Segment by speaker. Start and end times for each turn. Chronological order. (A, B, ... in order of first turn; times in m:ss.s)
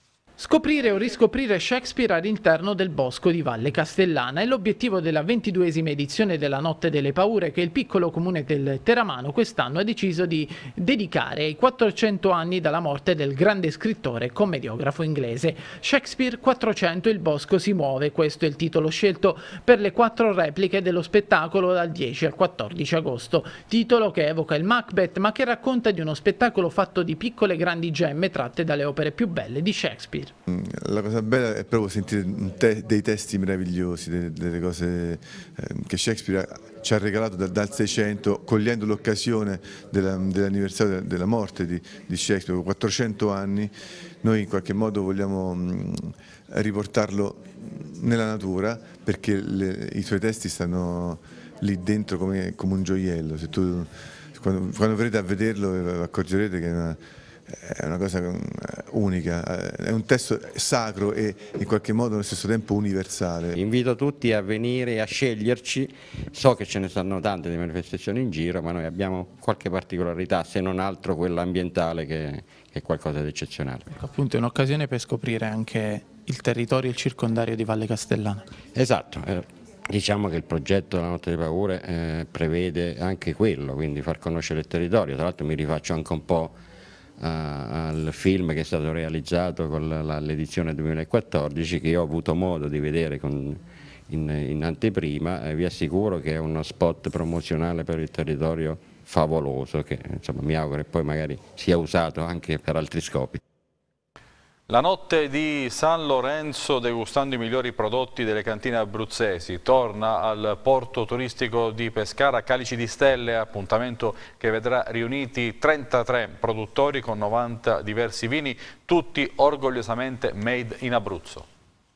0:00.4-0:30.3 A
0:30.5-1:03.5 B
1:03.5-1:13.9 C
1:13.9-1:18.4 D
1:18.7-1:26.6 C
1:27.2-1:43.4 C
1:44.7-2:01.4 E